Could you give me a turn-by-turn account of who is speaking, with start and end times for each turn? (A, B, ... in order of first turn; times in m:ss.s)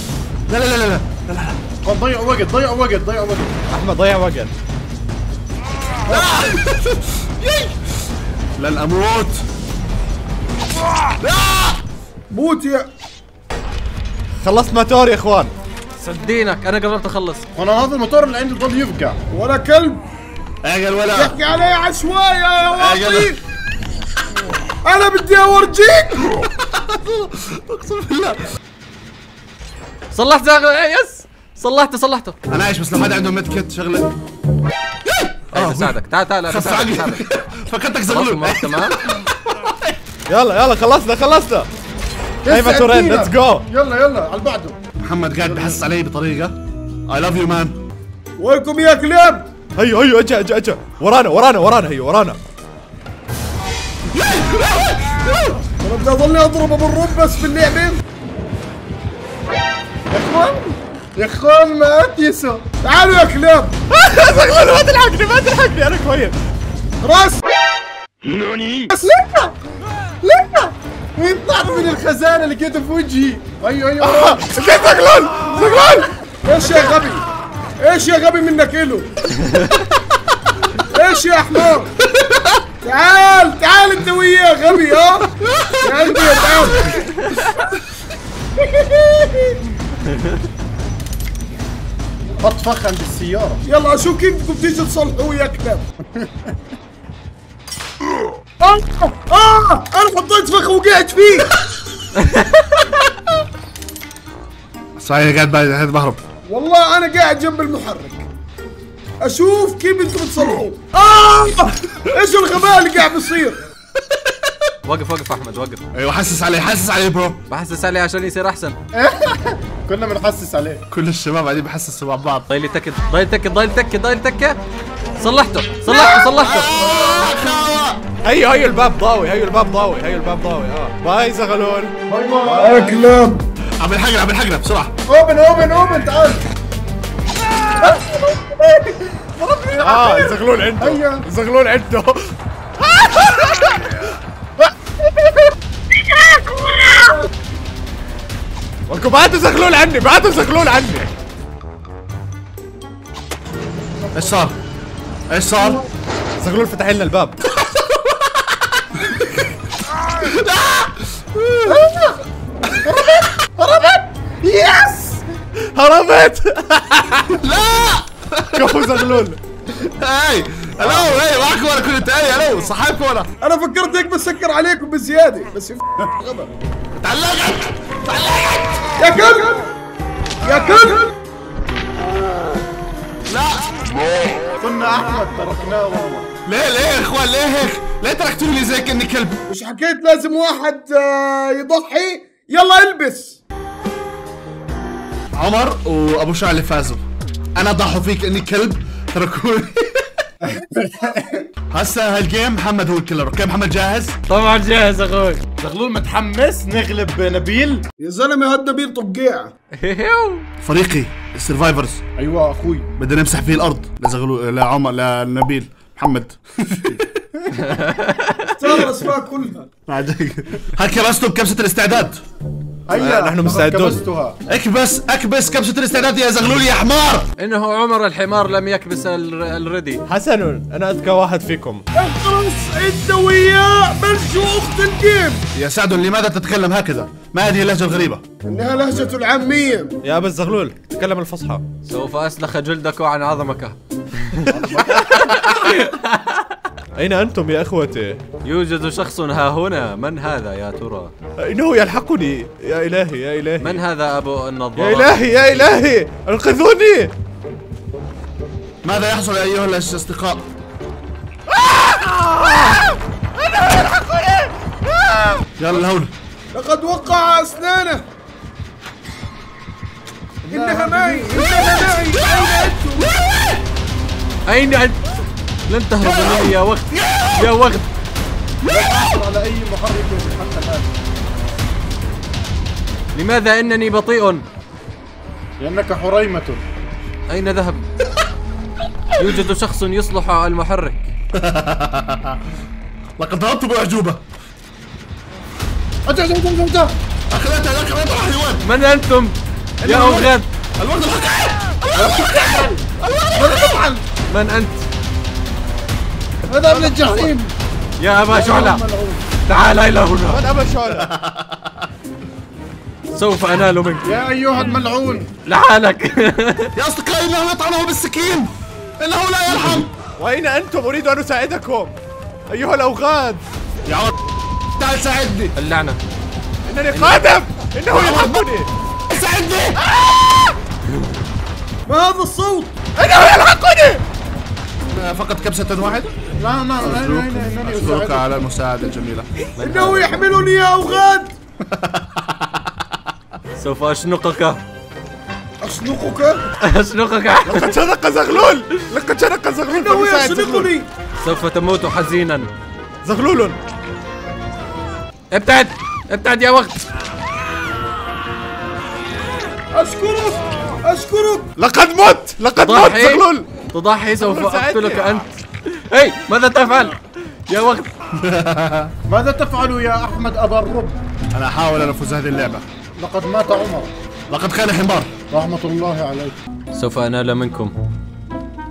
0:00.5-0:01.6 A
0:01.8-0:03.5 B
0:03.7-0:04.5 C
0:06.1-0:07.7 A
0:06.1-0:06.5 D
0:08.6-0:09.4 A
0:11.2-0:11.8 A
0:12.3-0:12.9 D
0:14.4-0:15.5 C
0:16.0-0:17.4 E
0:17.5-0:19.2 B
0:19.3-0:20.0 D
0:20.6-0:21.4 A
0:21.1-0:23.4 D
0:22.7-0:23.4 A
0:24.8-0:26.2 D
0:26.4-0:28.4 A
0:30.1-0:32.4 E
0:32.5-0:34.1 A
0:35.1-0:36.0 A
0:35.5-0:37.2 E
0:36.5-0:39.8 A
0:38.1-0:39.0 E
0:40.3-0:41.7 C
0:42.4-0:44.8 B
0:42.5-0:43.6 C
0:45.0-0:46.6 A
0:45.4-0:45.8 B
0:47.1-0:47.8 A
0:48.4-0:49.5 D
0:49.8-0:52.4 C
0:54.1-0:55.6 A
0:55.8-0:58.0 D
1:00.1-1:02.7 B
1:02.8-1:03.8 D
1:03.9-1:06.4 C
1:07.0-1:07.4 D
1:08.4-1:08.9 C
1:09.0-1:09.5 B
1:10.2-1:14.5 B
1:14.0-1:16.2 C
1:15.5-1:15.9 B
1:16.4-1:17.3 D
1:17.8-1:19.1 D
1:20.8-1:21.9 D
1:22.8-1:27.1 D
1:28.6-1:29.6 D
1:32.4-1:33.6 B
1:33.6-1:35.9 D
1:38.6-1:41.5 D
1:42.2-1:42.9 E
1:45.0-1:46.2 A
1:46.5-1:48.3 D
1:49.2-1:53.6 D
1:54.8-1:55.8 E
1:55.9-1:57.4 A
1:57.5-1:58.8 E
1:58.9-2:00.8 B
2:00.9-2:02.5 A
2:02.5-2:04.6 E
2:05.2-2:06.7 E
2:05.9-2:08.0 A
2:08.2-2:11.9 C
2:12.1-2:13.0 B
2:12.4-2:13.4 D
2:13.8-2:14.9 A
2:15.1-2:16.4 B
2:15.6-2:16.0 D
2:17.8-2:21.3 B
2:19.7-2:24.0 C
2:28.9-2:31.1 C
2:34.2-2:34.6 A
2:35.3-2:35.8 A
2:36.4-2:37.4 C
2:37.6-2:38.1 A
2:39.0-2:39.5 A
2:40.2-2:41.8 A
2:41.7-2:42.2 B
2:42.8-2:45.2 B
2:45.6-2:47.4 C
2:47.3-2:49.2 A
2:48.6-2:49.4 C
2:49.7-2:53.3 A
2:53.4-2:56.5 D
2:57.0-2:59.0 A
2:59.0-2:59.7 D
3:00.4-3:01.1 D
3:03.3-3:03.9 A
3:04.6-3:06.3 B
3:06.5-3:09.4 A
3:09.5-3:13.4 D
3:15.3-3:17.0 A
3:17.6-3:20.1 A
3:20.5-3:21.4 B
3:21.7-3:24.2 A
3:24.3-3:25.5 E
3:25.6-3:27.9 B
3:28.0-3:29.5 D
3:29.8-3:30.5 E
3:30.6-3:32.0 A
3:32.2-3:32.9 B
3:33.0-3:37.1 A
3:37.6-3:38.5 E
3:38.6-3:39.7 D
3:39.9-3:42.2 A
3:42.9-3:44.4 B
3:42.9-3:44.0 C
3:44.5-3:47.3 A
3:47.4-3:50.0 E
3:50.1-3:51.8 C
3:52.0-3:55.4 D
3:55.5-3:58.2 A
3:58.4-4:00.0 D
4:00.0-4:01.6 C
4:01.8-4:06.4 E
4:04.5-4:05.4 B
4:07.0-4:08.2 C
4:08.4-4:11.1 E
4:11.4-4:13.8 C
4:13.6-4:15.3 E
4:14.8-4:17.1 C
4:18.8-4:20.5 A
4:21.5-4:25.5 C
4:25.6-4:26.1 A
4:26.5-4:28.0 D
4:30.4-4:31.6 B
4:30.5-4:33.2 D
4:34.5-4:35.0 E
4:35.7-4:37.9 E
4:38.6-4:41.0 B
4:43.1-4:44.5 E
4:45.6-4:46.6 B
4:47.3-4:47.9 E
4:49.2-4:51.1 E
4:51.4-4:52.4 A
4:53.2-4:54.2 A
4:56.1-4:56.9 B
4:57.3-4:58.7 A
4:58.6-5:00.5 E
4:59.8-5:00.3 C
5:00.8-5:03.8 A
5:02.0-5:04.0 B
5:04.3-5:04.9 E
5:06.5-5:07.5 B
5:06.5-5:07.3 C
5:08.0-5:08.8 E
5:08.3-5:09.2 B
5:09.5-5:10.4 E
5:10.3-5:11.1 C
5:10.9-5:11.9 A
5:13.1-5:14.2 E
5:14.0-5:15.3 B
5:15.4-5:16.7 E
5:16.8-5:19.9 A
5:20.2-5:22.0 C
5:22.5-5:23.4 C
5:23.9-5:24.2 A
5:24.8-5:25.6 A
5:25.6-5:26.0 E
5:26.7-5:28.7 C
5:26.9-5:27.3 E
5:27.9-5:28.4 A
5:29.1-5:29.8 A
5:29.9-5:30.6 C
5:31.9-5:32.8 D
5:33.0-5:34.0 C
5:34.9-5:36.1 A
5:36.4-5:38.3 B
5:36.8-5:39.3 A
5:39.6-5:40.2 E
5:39.6-5:41.3 D
5:41.7-5:42.3 A
5:43.6-5:44.6 E
5:45.6-5:46.4 D
5:46.6-5:47.7 E
5:47.5-5:50.7 C
5:49.7-5:50.9 D
5:51.2-5:52.5 E
5:53.0-5:53.6 C
5:55.3-5:56.8 E
5:59.7-6:01.5 D
6:01.6-6:03.5 C
6:02.6-6:07.9 E
6:04.2-6:05.2 C
6:08.2-6:08.9 A
6:09.1-6:11.0 B
6:11.3-6:12.6 A
6:13.0-6:13.9 B
6:14.3-6:15.1 A
6:15.3-6:16.4 B
6:16.7-6:17.7 E